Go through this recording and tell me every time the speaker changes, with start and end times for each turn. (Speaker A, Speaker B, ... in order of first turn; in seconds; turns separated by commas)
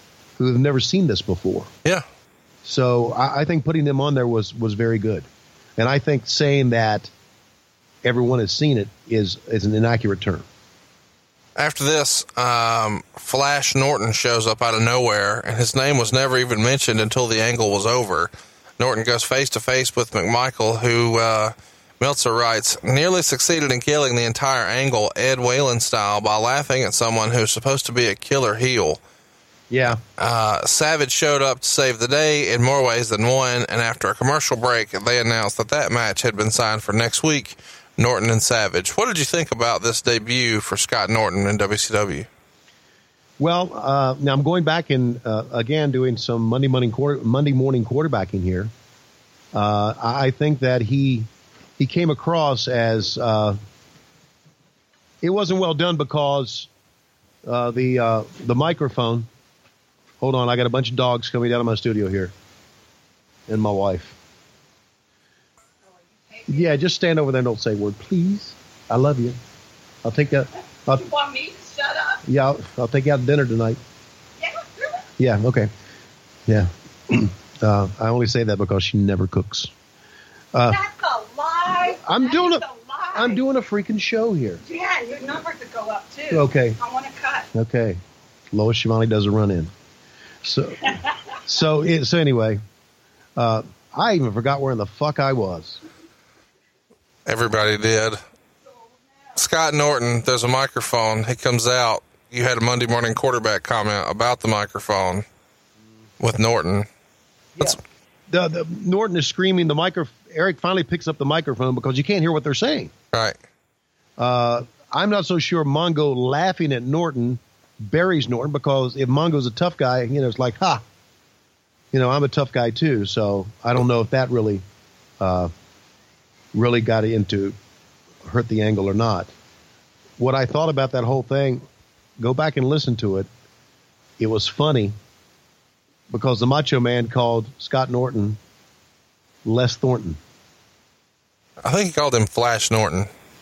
Speaker A: 0.4-1.7, Speaker A: 2.6-7.1, Speaker A: 8.0-10.4, Speaker B: 11.6-29.0, Speaker A: 29.7-30.0, Speaker B: 30.2-42.3, Speaker A: 43.4-48.7, Speaker A: 49.5-51.3, Speaker A: 51.8-53.6, Speaker A: 55.2-56.7, Speaker A: 57.4-59.3, Speaker A: 60.2-62.3, Speaker A: 63.5-64.2, Speaker C: 66.3-66.6, Speaker A: 66.5-69.4, Speaker A: 70.0-71.1, Speaker C: 70.9-72.2, Speaker A: 72.2-73.8, Speaker A: 75.2-75.7, Speaker A: 76.5-79.7, Speaker A: 80.5-80.8, Speaker C: 80.7-83.3, Speaker A: 81.7-84.6, Speaker C: 84.7-87.5, Speaker A: 86.3-86.8, Speaker A: 87.5-88.0, Speaker A: 88.5-89.7, Speaker A: 90.4-92.6, Speaker A: 93.4-95.8, Speaker B: 97.2-98.2, Speaker B: 99.3-105.2, Speaker B: 106.2-106.9, Speaker A: 108.3-112.9, Speaker B: 113.1-113.4, Speaker A: 114.2-120.8, Speaker A: 121.9-124.6, Speaker A: 125.2-125.5, Speaker A: 126.5-127.5, Speaker A: 128.2-129.3, Speaker A: 130.2-131.6, Speaker A: 132.2-133.3, Speaker A: 134.2-134.9, Speaker A: 136.1-138.4, Speaker A: 139.4-140.2, Speaker B: 141.6-143.1